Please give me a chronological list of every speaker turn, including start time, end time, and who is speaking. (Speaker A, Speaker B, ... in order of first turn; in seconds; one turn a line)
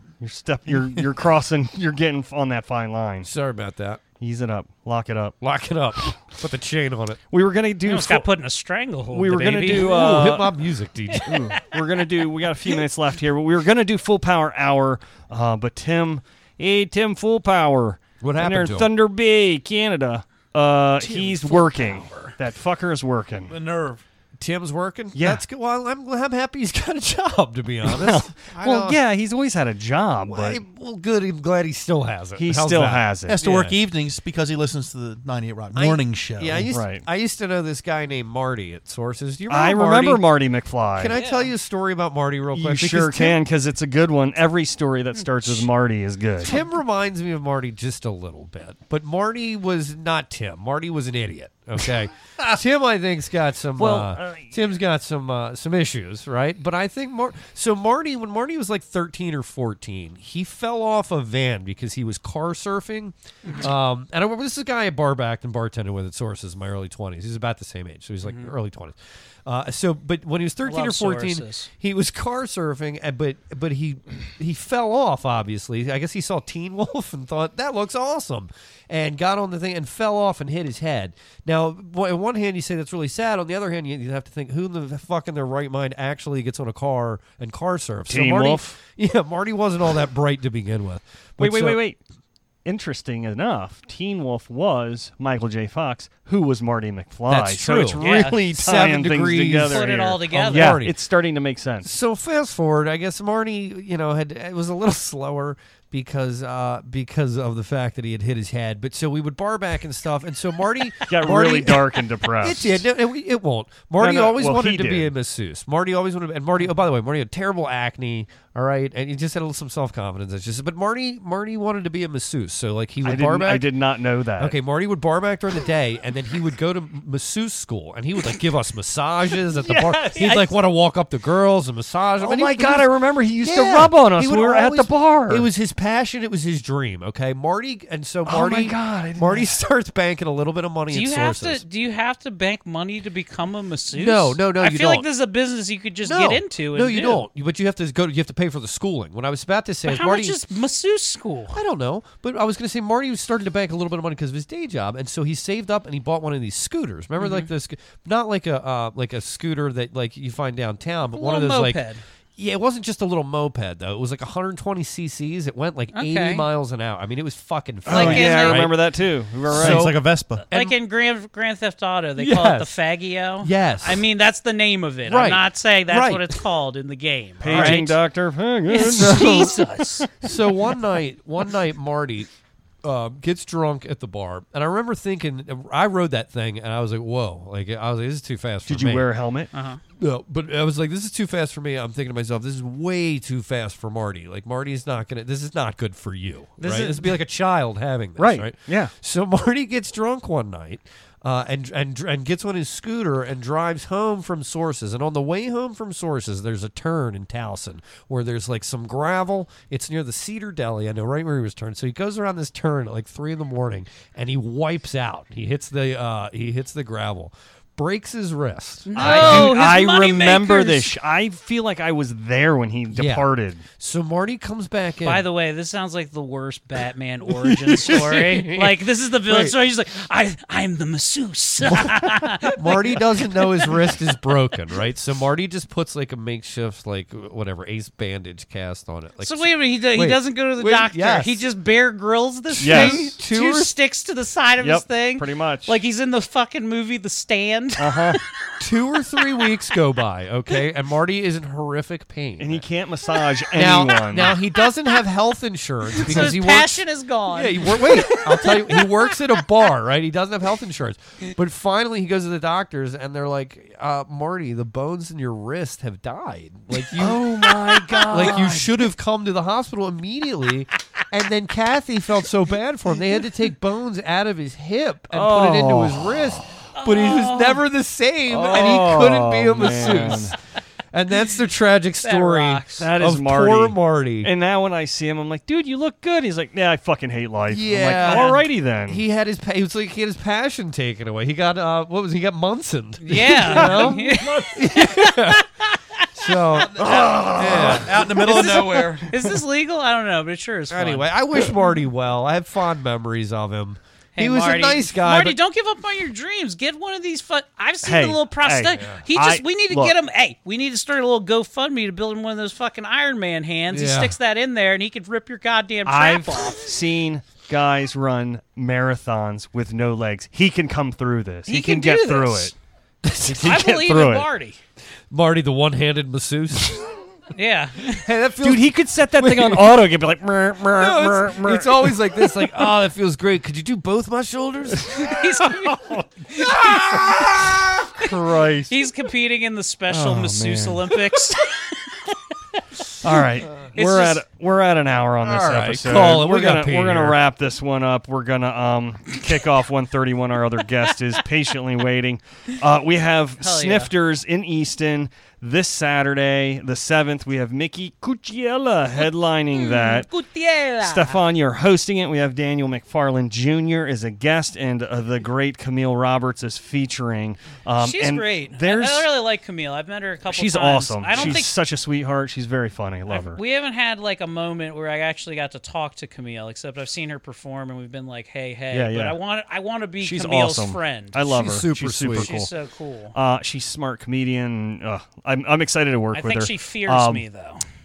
Speaker A: 0.2-3.3
Speaker B: 3.2-4.0
Speaker A: 4.2-5.4
Speaker B: 5.4-7.2
Speaker A: 7.3-8.3
Speaker C: 7.9-10.1
Speaker A: 9.1-10.5
Speaker B: 9.6-11.5
Speaker A: 11.2-23.5
Speaker B: 18.2-18.9
Speaker B: 21.0-22.3
Speaker B: 23.5-29.0
Speaker A: 25.1-25.4
Speaker A: 27.9-30.6
Speaker B: 30.2-33.8
Speaker A: 32.4-33.4
Speaker D: 33.3-36.7
Speaker B: 35.7-40.2
Speaker A: 36.7-37.0
Speaker A: 39.5-41.2
Speaker B: 41.0-43.4
Speaker C: 41.1-41.5
Speaker A: 42.5-46.5
Speaker B: 46.4-91.8
Speaker A: 53.8-54.6
Speaker C: 68.2-68.5
Speaker C: 70.6-71.7
Speaker A: 88.1-88.7
Speaker A: 91.4-92.0
Speaker A: 92.7-101.9
Speaker B: 97.3-101.0
Speaker C: 98.0-98.4
Speaker C: 99.7-100.8
Speaker B: 101.8-123.7
Speaker A: 111.1-112.8
Speaker A: 114.0-115.1
Speaker A: 123.0-124.6
Speaker B: 124.4-141.6
Speaker A: 129.6-130.5
Speaker A: 132.2-135.5
Speaker A: 138.3-139.6
Speaker C: 140.9-147.2
Speaker B: 143.9-145.1
Speaker B: 146.0-150.4
Speaker C: 149.8-151.6
Speaker B: 151.5-161.8
Speaker C: 157.2-157.5
Speaker C: 161.1-162.0
Speaker B: 162.4-168.8
Speaker C: 165.9-166.5
Speaker A: 167.9-169.9
Speaker C: 167.9-168.6
Speaker D: 169.5-170.4
Speaker B: 169.5-170.8
Speaker C: 170.5-178.0
Speaker B: 172.2-172.8
Speaker B: 173.4-174.1
Speaker B: 175.1-176.4
Speaker A: 177.4-180.3
Speaker B: 177.4-177.9
Speaker C: 178.7-180.1
Speaker B: 178.9-179.6
Speaker B: 180.2-182.3
Speaker B: 182.8-189.1
Speaker A: 188.7-189.5
Speaker C: 189.5-189.8
Speaker B: 190.0-219.6
Speaker A: 196.6-197.1
Speaker A: 198.2-198.9
Speaker C: 218.9-220.9
Speaker A: 219.0-223.6
Speaker B: 222.9-225.3
Speaker C: 225.0-233.0
Speaker B: 227.4-229.6
Speaker B: 231.7-241.5
Speaker C: 239.2-248.2
Speaker B: 242.5-243.7
Speaker A: 242.6-243.2
Speaker A: 244.6-245.7
Speaker A: 247.8-248.2
Speaker B: 248.6-252.7
Speaker A: 252.4-254.3
Speaker B: 253.6-280.4
Speaker C: 254.2-255.0
Speaker C: 256.0-259.2
Speaker A: 267.0-268.7
Speaker A: 275.1-276.2
Speaker C: 276.8-277.6
Speaker A: 278.3-280.4
Speaker C: 279.7-280.2
Speaker B: 280.9-284.3
Speaker C: 282.0-282.9
Speaker A: 282.8-289.0
Speaker B: 287.5-295.5
Speaker C: 288.1-288.4
Speaker C: 293.0-296.1
Speaker A: 293.5-294.5
Speaker B: 296.2-299.0
Speaker A: 296.8-299.3
Speaker D: 296.9-299.1
Speaker C: 298.1-301.6
Speaker B: 300.7-305.4
Speaker C: 304.2-316.7
Speaker A: 307.8-309.9
Speaker B: 308.7-309.0
Speaker B: 313.7-314.2
Speaker A: 315.9-322.5
Speaker C: 321.5-322.5
Speaker B: 323.1-323.4
Speaker A: 323.2-324.3
Speaker C: 323.4-324.6
Speaker B: 325.1-326.8
Speaker C: 327.3-328.1
Speaker B: 327.9-329.9
Speaker A: 328.4-332.3
Speaker B: 330.8-335.1
Speaker C: 334.9-336.9
Speaker A: 335.6-336.1
Speaker B: 336.5-337.6
Speaker A: 336.6-337.3
Speaker A: 338.0-338.7
Speaker C: 338.7-341.4
Speaker A: 339.9-340.9
Speaker A: 343.0-360.1
Speaker B: 343.6-344.2
Speaker C: 343.8-344.1
Speaker B: 345.2-347.2
Speaker C: 353.4-353.9
Speaker C: 359.5-361.2
Speaker A: 360.8-369.1
Speaker C: 367.8-371.5
Speaker A: 370.3-373.4
Speaker C: 373.1-381.2
Speaker A: 378.7-379.2
Speaker A: 380.0-382.5
Speaker B: 381.2-382.4
Speaker C: 382.1-383.2
Speaker A: 383.1-387.2
Speaker C: 386.1-387.6